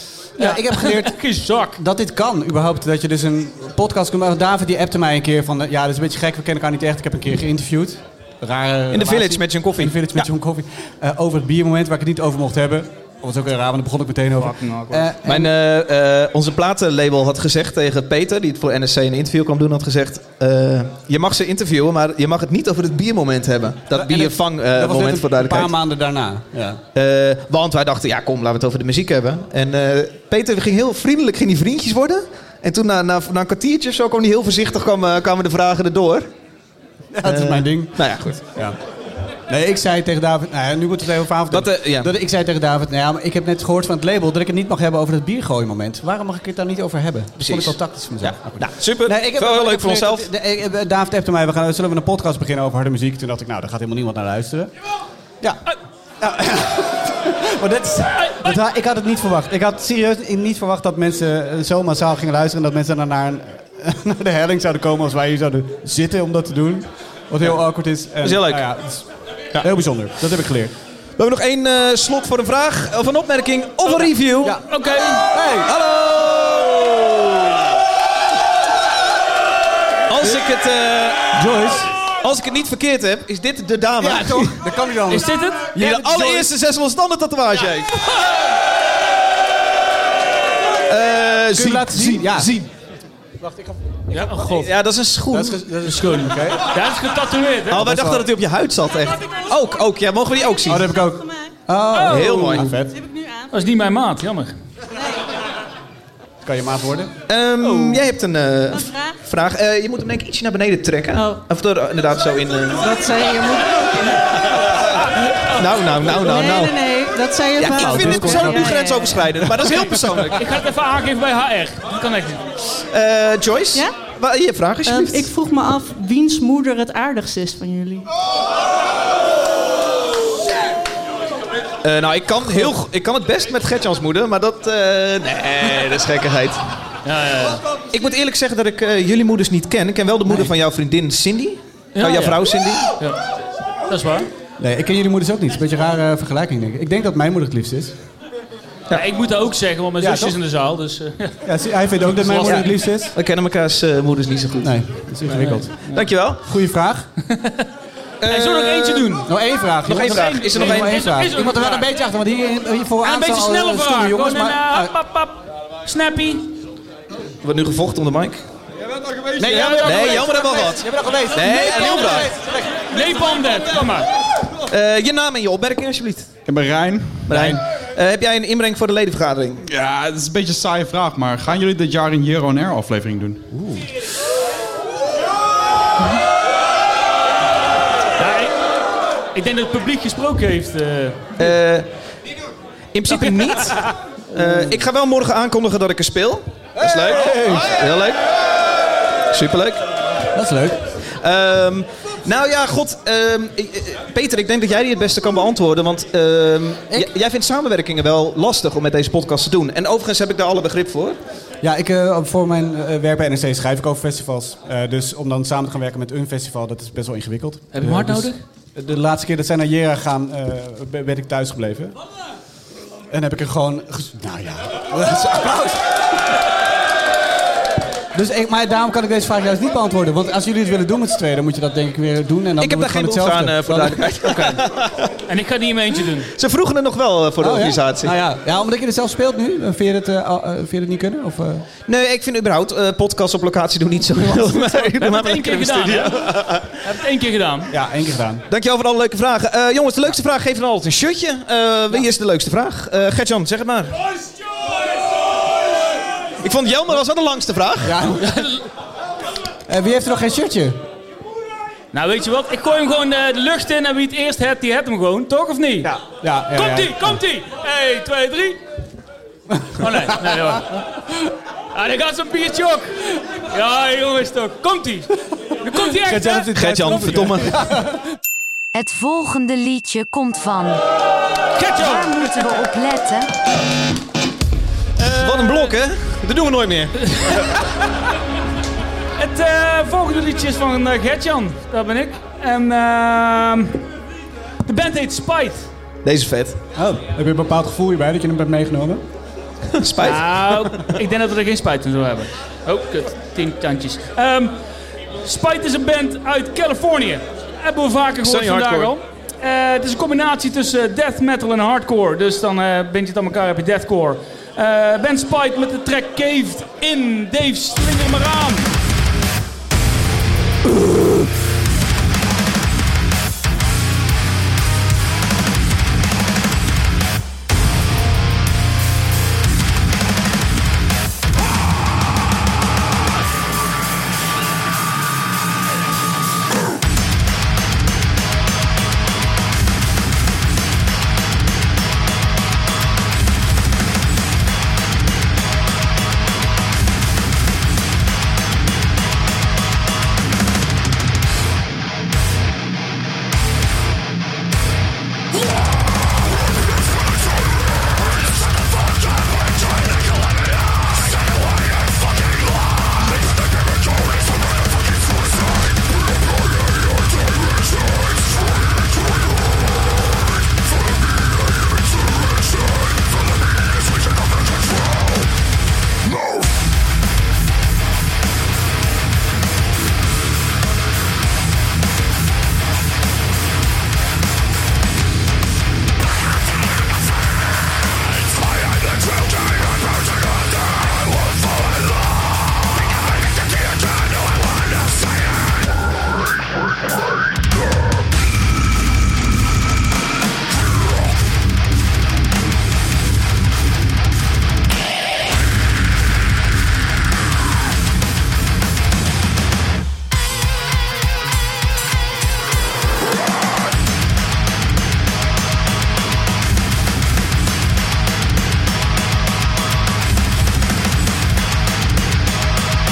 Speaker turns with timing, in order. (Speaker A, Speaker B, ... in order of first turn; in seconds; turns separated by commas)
Speaker A: 0.4-15.5, Speaker B: 0.4-1.8, Speaker C: 8.9-10.3, Speaker B: 14.4-15.1, Speaker C: 15.2-25.7, Speaker A: 23.9-26.8, Speaker C: 26.9-36.3, Speaker A: 37.1-38.8, Speaker C: 37.2-38.4, Speaker A: 39.5-54.7, Speaker C: 41.5-42.1, Speaker C: 47.4-50.3, Speaker A: 56.2-69.1, Speaker B: 58.2-58.5, Speaker C: 68.2-68.6, Speaker A: 69.6-70.7, Speaker C: 71.2-74.6, Speaker A: 74.4-75.7, Speaker B: 74.7-75.3, Speaker C: 75.7-77.5, Speaker C: 80.1-81.3, Speaker A: 81.3-81.9, Speaker C: 82.2-84.6, Speaker A: 84.0-86.5, Speaker B: 85.1-85.7, Speaker C: 85.7-88.0, Speaker C: 90.9-92.7, Speaker A: 91.5-92.5, Speaker A: 93.4-94.6, Speaker B: 94.1-94.7, Speaker C: 94.5-95.6, Speaker A: 95.3-96.7, Speaker B: 95.8-97.9, Speaker C: 97.7-100.9, Speaker A: 97.7-98.3, Speaker A: 100.7-103.0, Speaker B: 101.9-102.4, Speaker C: 102.0-102.7, Speaker D: 103.0-103.5, Speaker B: 103.5-104.5, Speaker D: 105.0-105.2, Speaker A: 106.4-107.1, Speaker C: 107.3-112.9, Speaker D: 111.1-111.4, Speaker D: 112.8-114.4, Speaker C: 115.0-116.8, Speaker D: 116.0-119.3, Speaker C: 117.5-120.4, Speaker A: 117.6-118.7, Speaker A: 119.5-120.1, Speaker B: 120.3-122.4, Speaker C: 122.9-125.3, Speaker D: 124.8-128.1, Speaker C: 131.8-136.6, Speaker B: 137.0-137.6, Speaker C: 137.9-142.9, Speaker A: 140.2-140.5, Speaker B: 141.9-143.2, Speaker B: 143.9-144.3, Speaker A: 144.6-147.9, Speaker B: 148.9-151.4, Speaker A: 150.0-150.4, Speaker A: 151.4-153.1, Speaker B: 152.2-152.6, Speaker C: 152.4-156.4, Speaker A: 154.6-155.7, Speaker B: 155.3-156.0, Speaker A: 156.3-157.1, Speaker B: 157.3-157.7, Speaker C: 158.2-159.2, Speaker B: 158.3-159.3, Speaker A: 159.2-164.9, Speaker C: 159.8-161.1, Speaker B: 159.9-161.9, Speaker B: 163.0-166.5, Speaker C: 167.4-168.4, Speaker E: 169.0-169.8, Speaker A: 169.4-173.3, Speaker B: 169.6-170.1, Speaker C: 169.7-172.3, Speaker B: 172.9-174.1, Speaker C: 174.7-176.3, Speaker A: 176.5-177.6, Speaker C: 177.3-179.6, Speaker E: 179.6-183.5, Speaker A: 183.6-183.8, Speaker B: 188.2-188.6, Speaker B: 189.3-191.4, Speaker C: 191.4-191.9, Speaker C: 192.9-198.2, Speaker B: 193.1-193.9, Speaker A: 194.3-194.7, Speaker A: 196.8-197.8, Speaker C: 199.3-199.8, Speaker A: 200.3-200.8, Speaker C: 201.2-211.2, Speaker A: 211.6-221.9, Speaker B: 217.7-218.4, Speaker A: 223.1-226.0, Speaker A: 228.1-234.6, Speaker C: 232.6-235.1, Speaker B: 235.3-236.3, Speaker C: 236.3-238.1, Speaker A: 237.4-241.7, Speaker C: 241.9-246.8, Speaker A: 244.1-244.6, Speaker B: 244.7-246.2, Speaker B: 246.8-247.7, Speaker A: 247.7-248.4, Speaker C: 248.5-253.9, Speaker C: 256.4-258.0, Speaker A: 257.8-258.5, Speaker B: 258.2-258.6, Speaker A: 259.7-260.8, Speaker B: 261.9-265.9, Speaker A: 265.8-267.2, Speaker B: 266.5-268.6, Speaker B: 269.8-277.0, Speaker A: 276.0-278.0, Speaker C: 276.5-277.6, Speaker F: 278.7-280.8, Speaker B: 281.5-282.6, Speaker F: 281.8-283.3, Speaker B: 285.0-285.7, Speaker C: 285.0-287.4, Speaker B: 287.1-287.4, Speaker B: 289.2-293.8, Speaker B: 294.6-295.7, Speaker C: 296.0-296.6, Speaker A: 296.7-299.0, Speaker C: 299.7-300.5, Speaker B: 300.0-304.6, Speaker B: 305.2-318.7, Speaker C: 308.2-308.9